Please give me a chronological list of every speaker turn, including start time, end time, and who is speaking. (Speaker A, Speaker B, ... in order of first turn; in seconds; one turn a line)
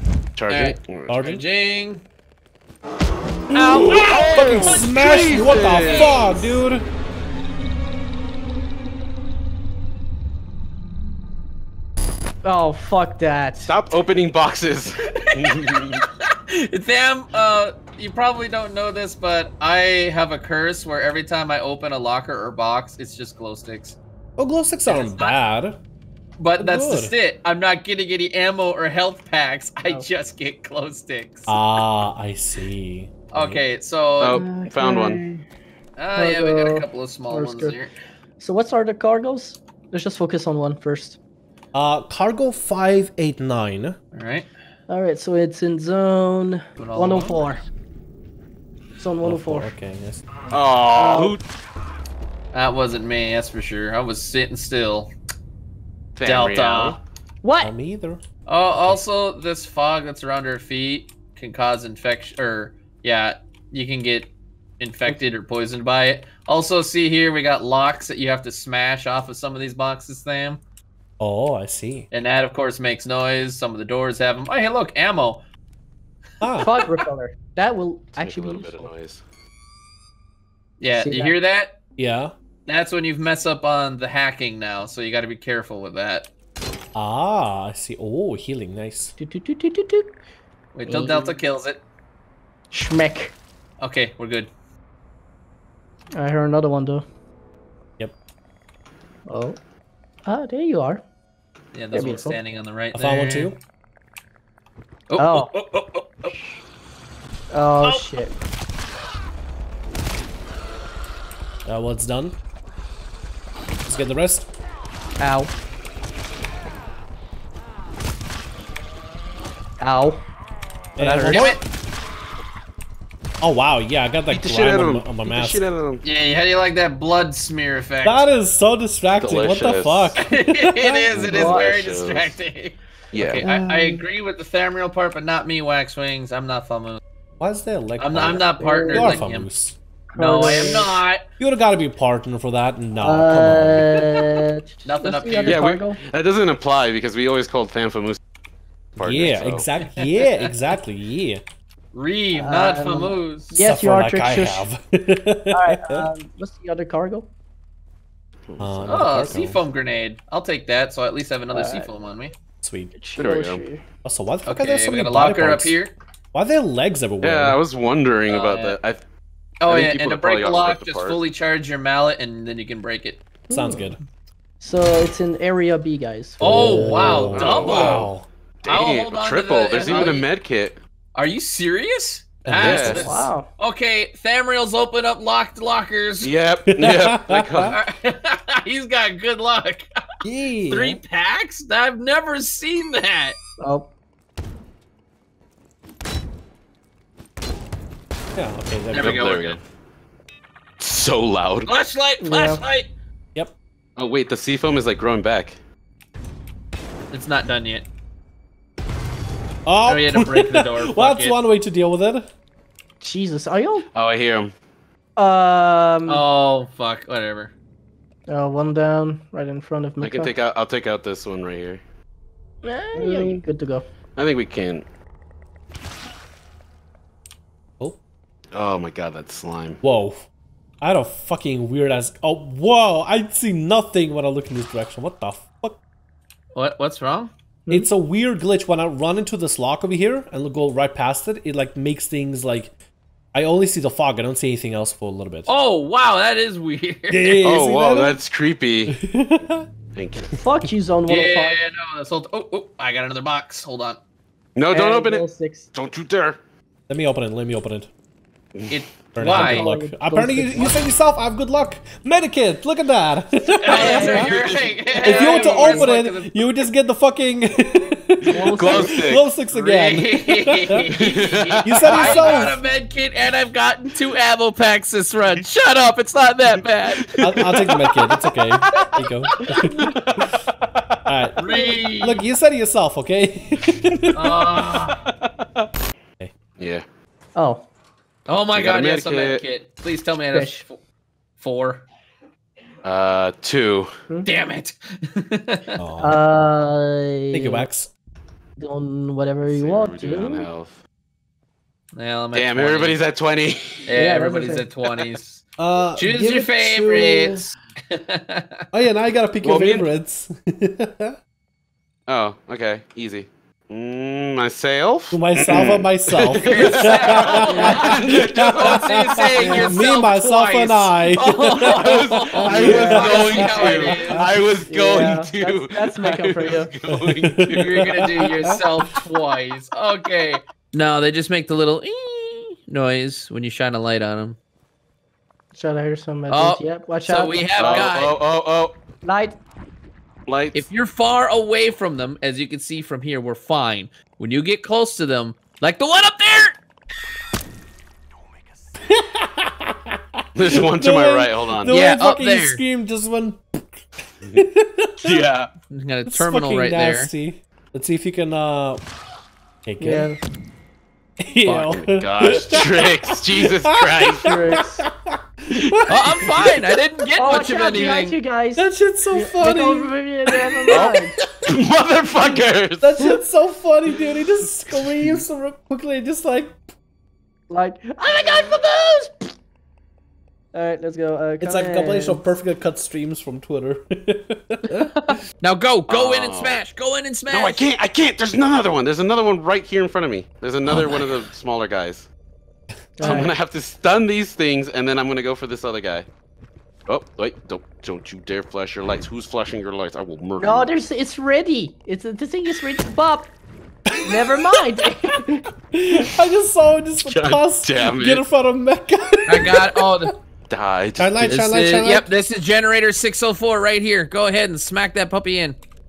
Speaker A: 0.4-1.2
Speaker B: 0.5-2.0
Speaker C: 1.1-1.4
Speaker B: 3.5-6.4
Speaker C: 3.5-6.9
Speaker A: 3.7-6.2
Speaker D: 12.4-13.7
Speaker A: 13.7-16.0
Speaker B: 15.3-15.8
Speaker B: 16.5-24.0
Speaker C: 24.4-25.8
Speaker B: 24.9-25.4
Speaker B: 26.4-31.6
Speaker C: 26.6-27.1
Speaker C: 31.5-33.6
Speaker B: 33.3-34.4
Speaker A: 34.2-35.2
Speaker D: 34.3-35.4
Speaker B: 36.0-37.9
Speaker D: 36.2-37.8
Speaker D: 38.4-41.2
Speaker C: 41.7-44.0
Speaker B: 44.1-44.5
Speaker D: 44.9-47.6
Speaker B: 46.8-47.5
Speaker D: 49.0-49.7
Speaker C: 49.2-50.3
Speaker A: 50.5-51.4
Speaker D: 51.0-51.4
Speaker B: 52.5-55.1
Speaker A: 56.2-57.0
Speaker B: 56.2-57.0
Speaker D: 57.4-57.7
Speaker C: 57.6-58.2
Speaker B: 58.5-70.6
Speaker C: 58.8-59.0
Speaker C: 71.2-72.1
Speaker B: 72.1-75.4
Speaker C: 76.4-76.7
Speaker D: 76.6-78.9
Speaker A: 78.2-79.2
Speaker B: 80.8-81.8
Speaker D: 81.0-81.3
Speaker C: 82.0-82.3
Speaker B: 82.7-86.3
Speaker C: 87.0-89.1
Speaker D: 89.2-90.1
Speaker B: 90.8-91.8
Speaker D: 90.9-91.4
Speaker D: 92.7-93.4
Speaker B: 93.8-94.5
Speaker D: 96.2-97.0
Speaker D: 99.3-99.6
Speaker D: 100.3-101.0
Speaker B: 101.7-103.5
Speaker D: 101.9-102.4
Speaker C: 102.9-103.6
Speaker B: 105.1-106.3
Speaker D: 105.2-105.5
Speaker D: 107.5-108.4
Speaker C: 111.7-112.4
Speaker C: 113.8-114.5
Speaker D: 115.2-115.5
Speaker D: 119.8-120.2
Speaker C: 121.0-121.6
Speaker D: 121.0-121.6
Speaker B: 121.3-121.6
Speaker C: 123.4-125.7
Speaker A: 124.3-126.0
Speaker B: 126.0-128.3
Speaker C: 128.0-131.1
Speaker A: 129.2-130.2
Speaker B: 130.2-132.8
Speaker A: 131.1-132.3
Speaker D: 131.3-131.7
Speaker A: 133.1-133.4
Speaker C: 133.2-134.0
Speaker B: 133.3-137.0
Speaker C: 137.4-139.8
Speaker B: 138.0-139.5
Speaker D: 138.6-139.2
Speaker D: 140.1-141.0
Speaker B: 140.2-141.2
Speaker C: 141.4-144.0
Speaker D: 143.0-146.0
Speaker B: 144.8-145.6
Speaker A: 145.4-148.2
Speaker A: 149.0-149.7
Speaker C: 149.0-151.4
Speaker B: 151.9-153.6
Speaker D: 152.3-154.7
Speaker C: 153.6-156.1
Speaker D: 155.5-157.3
Speaker A: 158.5-159.1
Speaker C: 158.6-159.6
Speaker B: 158.9-162.3
Speaker D: 161.5-161.9
Speaker C: 162.6-162.9
Speaker D: 162.9-163.8
Speaker A: 163.2-163.6
Speaker C: 164.0-165.8
Speaker B: 164.5-165.9
Speaker C: 166.3-167.6
Speaker A: 167.2-169.0
Speaker B: 168.3-168.8
Speaker B: 169.6-173.2
Speaker A: 169.7-171.2
Speaker C: 173.5-174.0
Speaker D: 173.5-173.9
Speaker D: 174.6-177.3
Speaker B: 176.4-178.1
Speaker C: 176.4-178.3
Speaker A: 177.1-178.1
Speaker A: 178.6-180.8
Speaker B: 178.7-180.3
Speaker D: 179.8-180.2
Speaker B: 181.2-186.3
Speaker C: 182.4-183.3
Speaker A: 182.6-183.1
Speaker D: 183.0-183.5
Speaker A: 186.2-187.8
Speaker C: 186.8-187.8
Speaker B: 187.7-189.9
Speaker C: 190.2-191.0
Speaker B: 190.7-193.4
Speaker D: 193.6-193.9
Speaker C: 198.3-199.3
Speaker B: 198.9-199.6
Speaker A: 198.9-199.6
Speaker A: 200.8-201.7
Speaker B: 201.7-202.9
Speaker D: 202.2-202.6
Speaker A: 204.0-205.6
Speaker B: 207.1-207.9
Speaker C: 209.7-212.3
Speaker B: 209.8-211.4
Speaker D: 213.0-213.9
Speaker A: 213.9-214.5
Speaker D: 215.2-216.3
Speaker B: 216.1-217.5
Speaker D: 218.3-220.3
Speaker A: 220.0-221.8
Speaker D: 222.6-223.9
Speaker C: 223.0-223.3
Speaker A: 224.2-224.8
Speaker A: 228.5-229.8
Speaker C: 229.8-230.3
Speaker C: 230.8-235.8
Speaker B: 236.5-237.3
Speaker C: 237.7-242.8
Speaker C: 243.3-245.5
Speaker B: 245.5-247.4
Speaker C: 247.1-248.2
Speaker A: 247.4-248.9
Speaker C: 248.9-249.7
Speaker A: 249.9-250.4
Speaker D: 250.3-251.6
Speaker B: 251.1-254.0
Speaker A: 254.6-256.4
Speaker D: 254.7-255.7
Speaker C: 256.9-257.9
Speaker B: 258.7-259.7
Speaker C: 259.1-264.4
Speaker D: 259.4-260.8
Speaker B: 263.6-266.6
Speaker D: 263.7-264.2
Speaker A: 263.8-265.8
Speaker C: 265.0-270.8
Speaker D: 265.4-265.8
Speaker D: 268.3-269.0
Speaker A: 268.4-269.2
Speaker B: 269.5-277.0
Speaker A: 270.9-272.5
Speaker C: 271.6-272.6
Speaker A: 276.9-278.1
Speaker C: 277.2-279.8
Speaker A: 279.8-280.3
Speaker C: 281.1-284.2
Speaker B: 281.4-282.2
Speaker B: 284.1-285.0
Speaker A: 286.6-286.9
Speaker D: 287.4-287.7
Speaker B: 288.3-290.8
Speaker A: 288.5-289.4
Speaker D: 290.3-290.6
Speaker B: 291.4-291.9
Speaker A: 292.8-293.9
Speaker B: 294.3-295.8
Speaker C: 295.8-296.2
Speaker D: 296.0-297.6
Speaker C: 297.3-297.9
Speaker D: 298.6-300.5
Speaker A: 299.5-300.8
Speaker B: 301.9-303.0
Speaker A: 302.3-303.9
Speaker B: 303.9-305.4
Speaker D: 304.0-304.6
Speaker C: 305.6-307.5
Speaker B: 306.0-308.6
Speaker C: 308.7-311.1
Speaker A: 309.4-309.9
Speaker A: 312.1-319.7
Speaker C: 315.1-324.1
Speaker B: 316.4-318.1
Speaker D: 317.5-317.8
Speaker B: 318.6-324.3
Speaker A: 321.8-327.9
Speaker D: 324.7-326.7
Speaker C: 326.9-328.6
Speaker B: 327.5-334.4
Speaker D: 335.6-337.9
Speaker B: 336.3-338.2
Speaker A: 337.6-338.8
Speaker D: 339.0-339.4
Speaker A: 340.3-340.7
Speaker B: 340.5-346.6
Speaker C: 348.9-350.0
Speaker A: 350.4-351.8
Speaker C: 350.6-355.2
Speaker B: 351.7-352.6
Speaker A: 355.0-355.5
Speaker B: 355.7-357.1
Speaker C: 356.1-358.8
Speaker C: 359.7-360.1
Speaker D: 359.8-360.2
Speaker C: 361.2-363.1
Speaker A: 361.4-364.4
Speaker C: 363.6-366.4
Speaker D: 364.2-364.9
Speaker B: 365.9-368.2
Speaker D: 367.2-371.1
Speaker C: 368.6-369.9
Speaker A: 370.7-372.9
Speaker C: 372.8-376.6
Speaker A: 374.9-375.2
Speaker D: 377.5-379.3
Speaker D: 380.5-382.2
Speaker C: 381.4-384.9
Speaker B: 385.0-387.7
Speaker A: 385.9-386.6
Speaker A: 387.3-392.1
Speaker C: 390.7-391.2
Speaker C: 393.0-393.3
Speaker D: 393.0-393.3
Speaker A: 393.0-396.1
Speaker A: 396.9-400.7
Speaker D: 400.4-403.3
Speaker C: 403.9-405.2
Speaker D: 404.1-405.4
Speaker C: 405.7-410.1
Speaker A: 407.1-408.2
Speaker B: 409.3-410.1
Speaker A: 410.5-411.4
Speaker C: 411.0-412.1
Speaker B: 411.3-415.6